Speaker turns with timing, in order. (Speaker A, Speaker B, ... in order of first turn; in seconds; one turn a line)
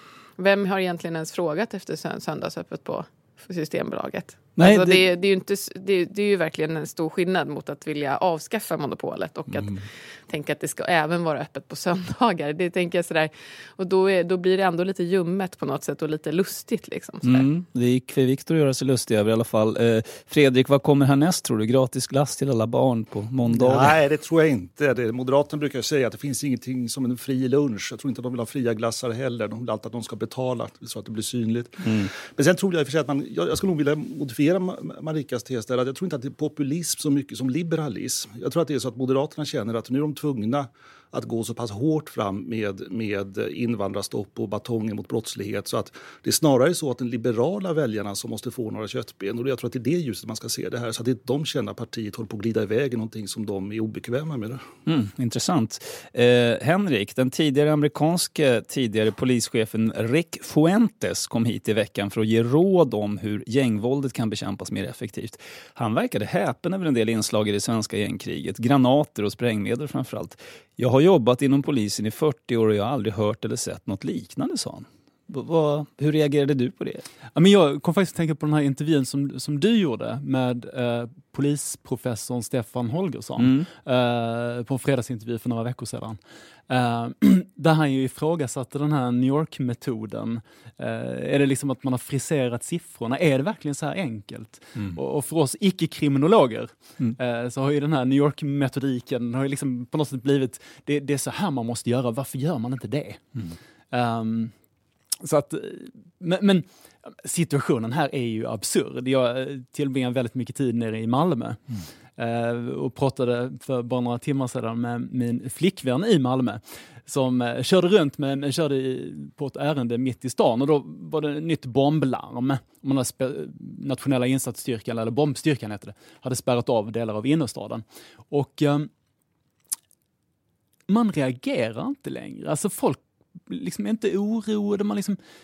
Speaker A: 0.4-9.7
Speaker B: 4.6-5.1
Speaker B: 9.5-9.8
Speaker A: 10.3-17.5
Speaker B: 17.2-24.0
Speaker C: 23.5-54.6
Speaker B: 31.8-32.1
Speaker B: 54.9-77.1
Speaker D: 77.4-103.2
Speaker B: 83.4-83.7
Speaker D: 103.9-104.5
Speaker D: 105.2-111.6
Speaker D: 112.2-128.9
Speaker D: 130.9-135.2